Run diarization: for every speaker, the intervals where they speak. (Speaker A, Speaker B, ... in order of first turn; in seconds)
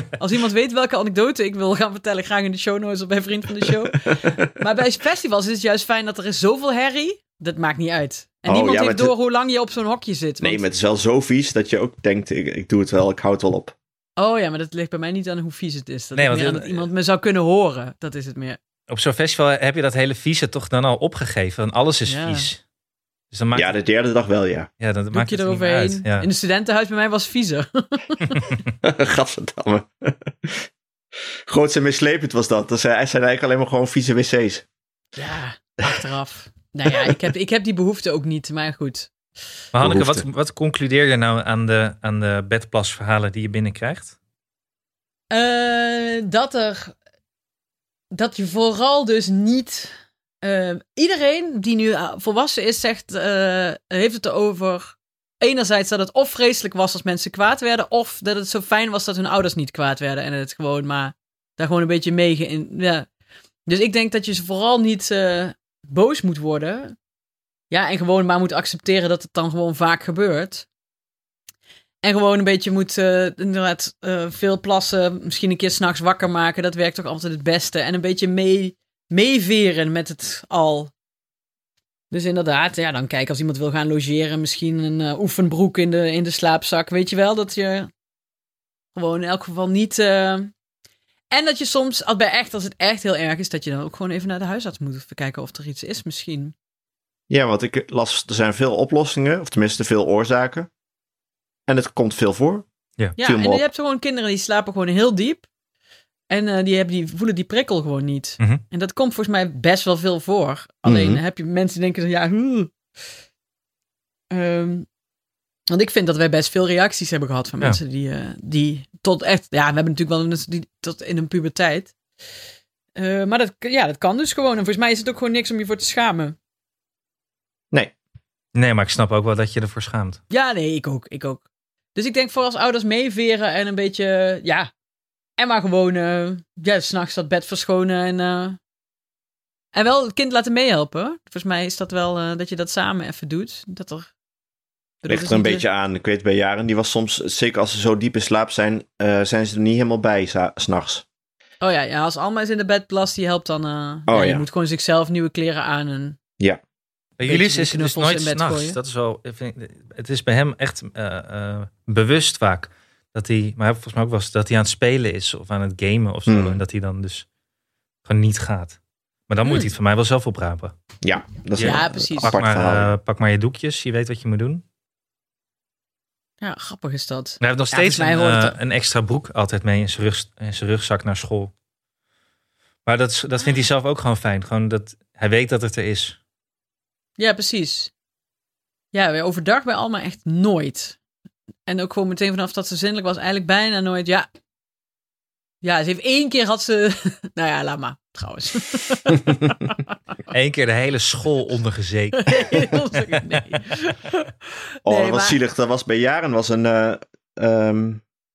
Speaker A: 0.2-10.6, 14.2-18.6, 22.1-22.5, 25.1-28.5, 35.2-39.1, 45.3-47.0, 48.1-63.1, 63.7-67.0, 67.7-70.7, 72.0-80.9, 82.1-87.9, 89.0-90.5, 91.3-96.5, 103.2-105.5, 106.3-112.7, 114.3-114.9, 115.7-121.9, 123.0-126.4, 130.3-131.4, 131.9-134.7, 135.4-138.6, 139.7-144.1, 145.0-145.6, 151.6-156.2, 157.3-158.8, 171.6-172.4, 176.4-178.6, 187.2-187.9, 188.9-191.0, 191.7-194.3, 195.6-199.8, 202.2-205.4
Speaker B: 4.1-4.4, 8.4-9.1, 10.4-13.8, 23.6-24.7, 28.8-30.7, 31.5-34.6, 36.9-37.2, 39.8-40.2, 97.3-100.7, 101.7-102.7, 103.2-103.6, 110.8-111.2, 145.1-151.1, 154.1-154.4, 166.3-166.6, 171.0-172.9, 204.8-208.0
Speaker C: 16.1-16.9, 18.9-22.6, 23.3-23.8, 24.8-26.3, 28.3-28.6, 39.7-44.1, 128.6-130.2, 157.2-167.3, 168.1-168.8, 169.3-170.7, 171.6-174.6, 177.4-181.5, 182.8-186.2, 200.3-202.7